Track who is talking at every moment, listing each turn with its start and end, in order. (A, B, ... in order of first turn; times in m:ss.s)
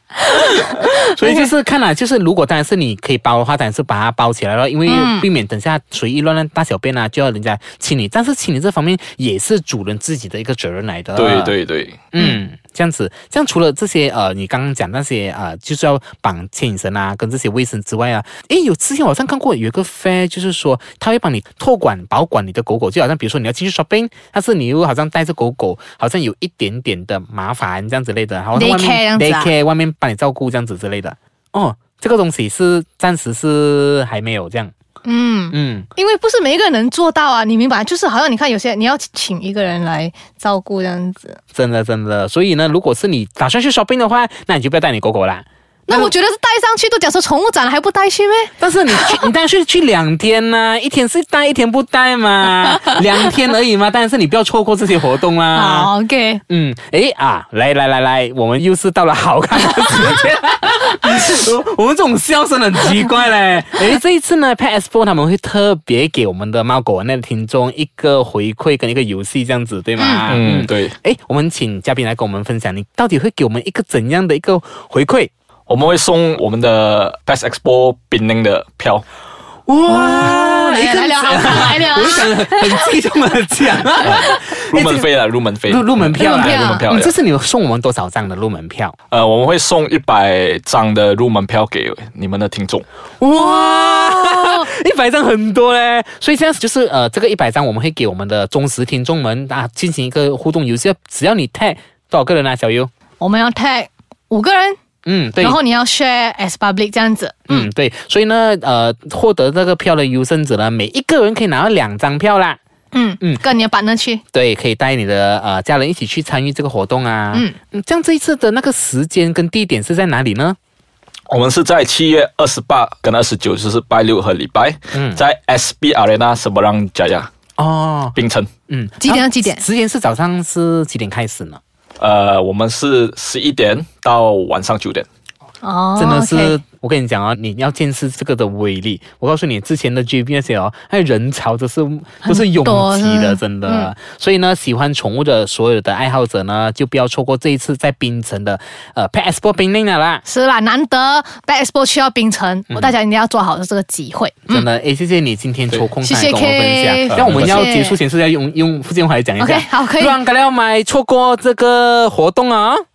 0:00.3-0:11.6 A
0:00.5-0:01.5 B
0:04.9-0:05.3 B
0:11.2-0:12.0 C
0:12.1-0:34.7 A
0:28.5-0:29.5 B
0:35.0-0:41.4 B
0:35.5-0:35.9 A
0:41.5-0:46.1 A
0:45.9-0:49.2 B
0:48.6-0:55.9 A
0:55.5-0:56.4 B
0:56.5-1:15.3 A
1:10.0-1:10.4 B
1:10.3-1:11.0 C
1:15.7-1:19.0 C
1:19.7-1:25.1 A
1:19.9-1:23.0 B
1:24.0-1:24.5 B
1:24.0-1:27.1 C
1:25.6-1:29.0 A
1:26.2-1:26.9 B
1:29.1-1:32.9 C
1:33.2-1:42.9 A
1:33.3-1:34.7 B
1:43.2-1:44.8 B
1:45.0-1:45.6 A
1:45.4-1:47.7 B
1:47.5-1:52.6 A
1:52.9-1:54.2 B
1:54.3-2:00.6 A
2:01.3-2:07.3 C
2:04.9-2:05.2 A
2:07.6-2:08.2 A
2:08.2-2:08.5 C
2:08.7-2:11.6 A
2:09.0-2:09.6 B
2:12.0-2:15.1 C
2:15.6-2:16.6 B
2:16.0-2:30.2 A
2:22.2-2:23.9 B
2:30.2-2:34.7 B
2:32.7-2:32.9 A
2:34.5-2:42.8 A
2:36.0-2:38.0 B
2:37.1-2:37.7 C
2:39.4-2:40.2 B